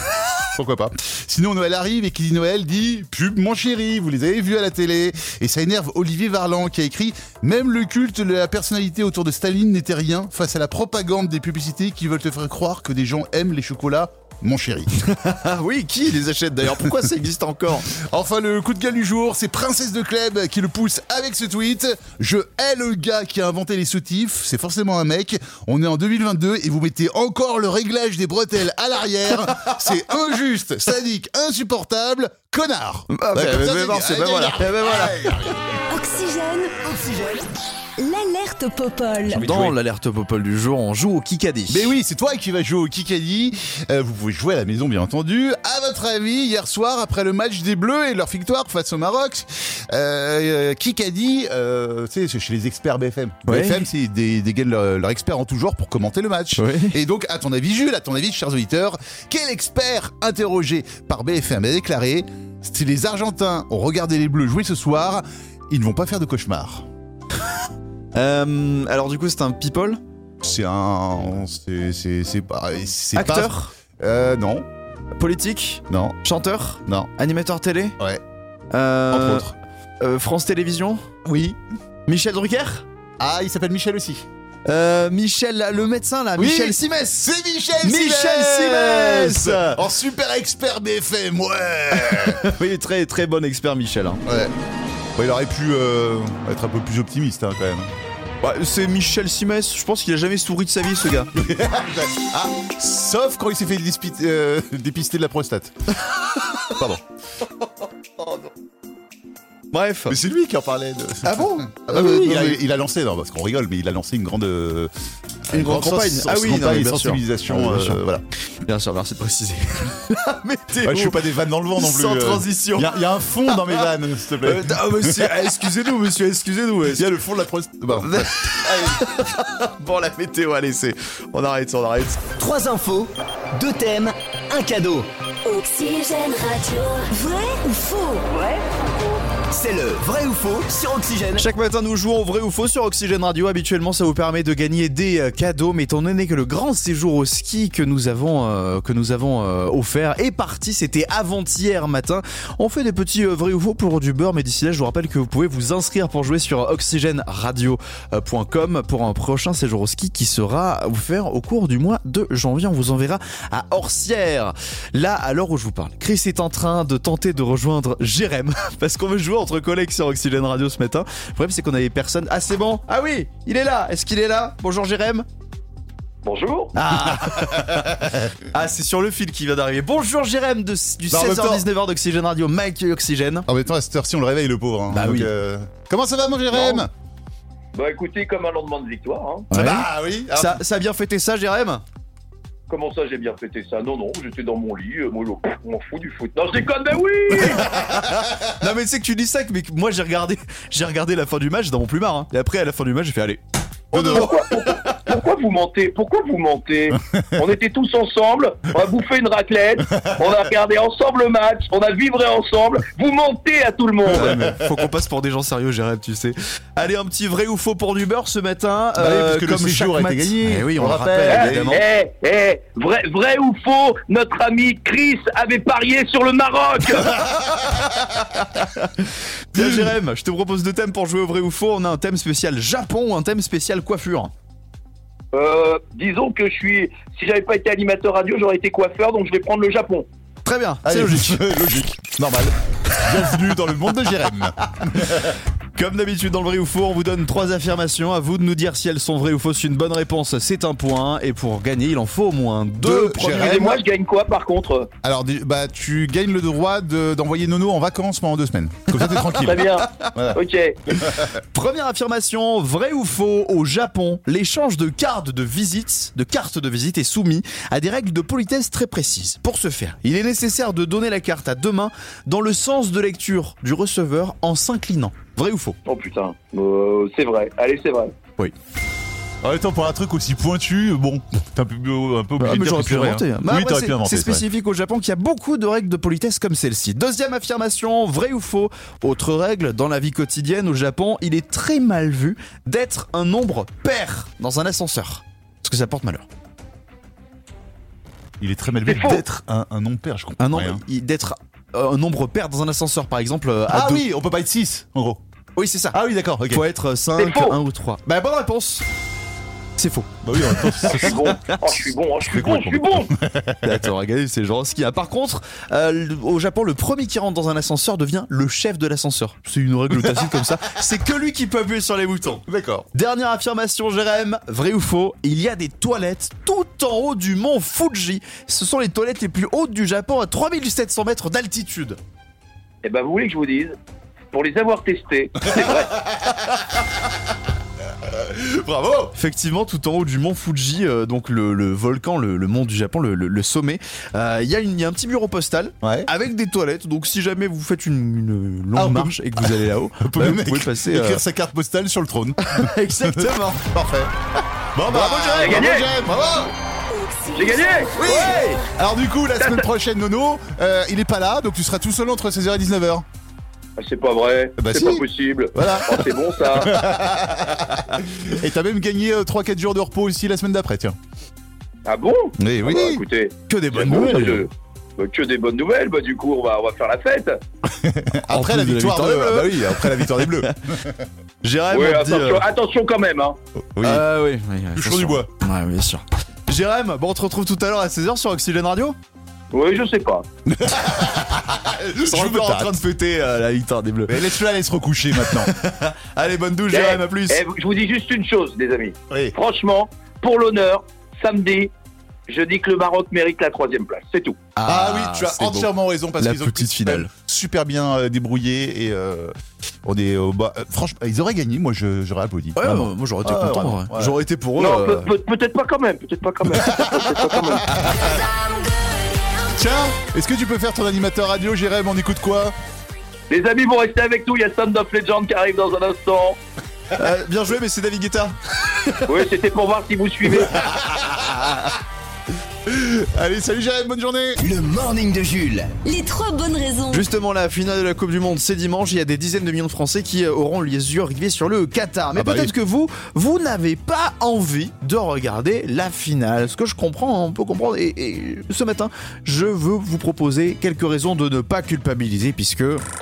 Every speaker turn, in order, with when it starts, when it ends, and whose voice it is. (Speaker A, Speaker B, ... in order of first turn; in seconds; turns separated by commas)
Speaker A: 0.5-14.9, Speaker B: 15.0-17.9, Speaker A: 17.9-35.6, Speaker B: 33.1-35.3, Speaker C: 35.9-36.8, Speaker D: 36.8-37.5, Speaker C: 38.0-39.6, Speaker B: 39.3-41.9, Speaker A: 41.7-66.9, Speaker B: 53.5-53.8, Speaker B: 56.6-57.0, Speaker B: 68.2-70.0, Speaker A: 70.4-74.7, Speaker B: 73.2-73.7, Speaker B: 75.2-78.0, Speaker A: 75.9-76.2, Speaker B: 78.7-79.5, Speaker A: 79.1-79.5, Speaker B: 80.0-81.1, Speaker A: 81.2-81.6, Speaker B: 82.1-82.8, Speaker A: 83.2-84.2, Speaker B: 84.7-87.3, Speaker A: 86.4-92.5, Speaker B: 87.8-89.8, Speaker B: 92.0-94.2, Speaker A: 94.2-94.5, Speaker A: 95.2-97.9, Speaker B: 98.4-101.3, Speaker A: 101.3-105.8, Speaker A: 106.7-107.0, Speaker B: 108.2-108.5, Speaker B: 109.7-110.2, Speaker A: 110.1-114.9, Speaker B: 111.2-112.6, Speaker A: 115.5-118.2, Speaker B: 115.5-118.0, Speaker B: 118.6-122.9, Speaker A: 120.8-125.5, Speaker B: 124.4-127.1, Speaker A: 126.9-129.0, Speaker B: 128.0-132.2, Speaker D: 132.4-135.1, Speaker C: 135.4-138.3, Speaker D: 139.5-141.4, Speaker B: 141.4-175.3, Speaker E: 176.2-176.7, Speaker B: 176.8-183.5, Speaker A: 177.1-178.3, Speaker A: 181.1-181.7, Speaker A: 183.5-186.9, Speaker B: 184.9-185.3, Speaker E: 187.7-189.5, Speaker B: 189.5-191.8, Speaker A: 189.5-190.6, Speaker E: 192.7-197.7, Speaker B: 197.7-203.4, Speaker E: 203.9-214.3, Speaker A: 203.9-204.4, Speaker B: 214.1-221.8, Speaker A: 214.2-214.6, Speaker A: 219.0-221.8, Speaker E: 221.3-227.2, Speaker B: 228.2-234.3, Speaker E: 235.3-240.1, Speaker B: 240.4-241.4, Speaker A: 240.8-245.4, Speaker B: 245.8-253.8, Speaker A: 252.8-253.8, Speaker E: 253.3-254.9, Speaker A: 255.0-260.4, Speaker E: 259.4-260.8, Speaker A: 261.0-261.3, Speaker B: 261.2-275.8, Speaker E: 275.9-278.1, Speaker A: 279.4-284.5, Speaker B: 282.4-296.3, Speaker A: 298.4-300.8, Speaker E: 298.9-299.2, Speaker B: 300.4-304.1, Speaker A: 303.7-305.2, Speaker B: 305.6-308.9, Speaker A: 305.9-306.7, Speaker E: 307.2-307.6, Speaker B: 309.8-311.1, Speaker A: 310.2-311.4, Speaker E: 310.9-313.1, Speaker A: 312.2-313.7, Speaker B: 313.6-332.0, Speaker A: 322.5-322.9, Speaker E: 332.8-333.8, Speaker E: 334.3-336.0, Speaker A: 338.1-339.1, Speaker B: 339.1-351.2, Speaker A: 345.8-346.1, Speaker A: 348.8-349.5, Speaker A: 350.0-354.1, Speaker B: 352.4-353.7, Speaker A: 354.8-356.5, Speaker B: 354.9-355.7, Speaker E: 355.4-355.9, Speaker C: 356.9-358.4, Speaker E: 357.3-358.0, Speaker A: 358.0-363.1, Speaker B: 358.0-358.6, Speaker E: 359.4-359.7, Speaker E: 363.8-366.8, Speaker A: 364.6-371.0, Speaker E: 371.9-377.4, Speaker A: 372.4-373.0, Speaker B: 373.5-374.5, Speaker A: 377.7-381.1, Speaker B: 378.3-380.6, Speaker B: 381.4-382.5, Speaker E: 381.7-383.4, Speaker B: 383.8-389.0, Speaker A: 383.8-384.0, Speaker A: 384.8-385.3, Speaker E: 389.5-390.3, Speaker A: 390.5-392.8, Speaker B: 392.0-394.2, Speaker A: 394.1-395.5, Speaker B: 395.3-397.4, Speaker E: 396.7-401.7, Speaker E: 402.3-404.4, Speaker B: 404.6-407.1, Speaker A: 404.6-414.1, Speaker B: 412.6-415.1, Speaker E: 414.6-417.7, Speaker B: 417.7-418.1, Speaker A: 419.6-422.6, Speaker E: 423.3-426.4, Speaker B: 426.9-428.4, Speaker E: 429.1-430.6, Speaker A: 430.6-431.5, Speaker B: 431.2-431.7, Speaker A: 432.7-434.4, Speaker D: 434.4-435.7, Speaker C: 435.8-437.1, Speaker B: 436.9-452.8, Speaker A: 442.1-442.5